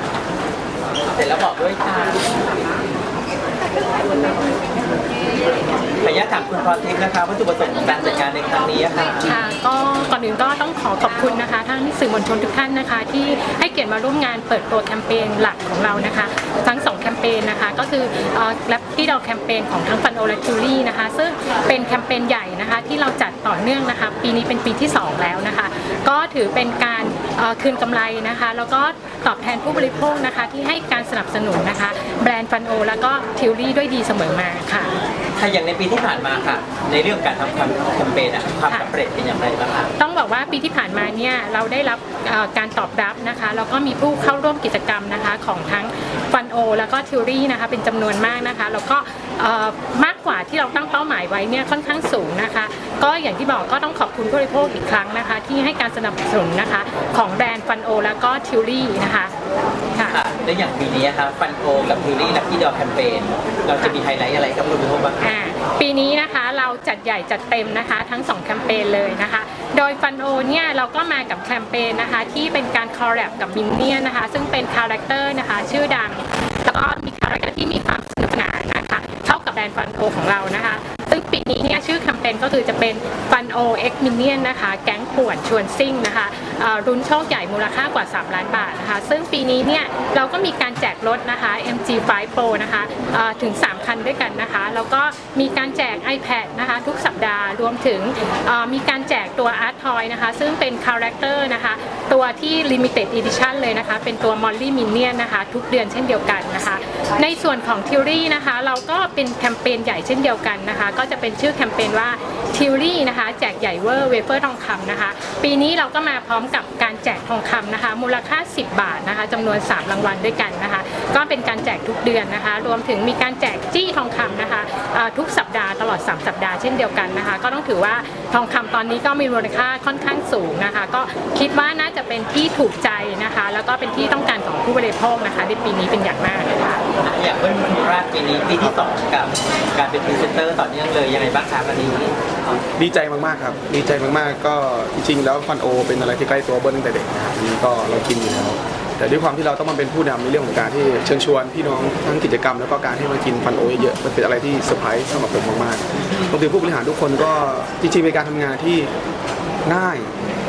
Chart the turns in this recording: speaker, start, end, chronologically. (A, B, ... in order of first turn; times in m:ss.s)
0:01.1-0:02.4 A
0:06.0-0:09.4 A
0:09.2-0:34.9 B
0:35.4-0:39.9 A
0:38.7-0:38.9 B
0:40.0-0:59.3 B
0:59.9-1:00.2 B
1:00.1-1:05.2 A
1:05.2-2:16.8 B
2:17.0-2:22.1 A
2:22.8-2:38.9 C
2:39.6-2:40.1 C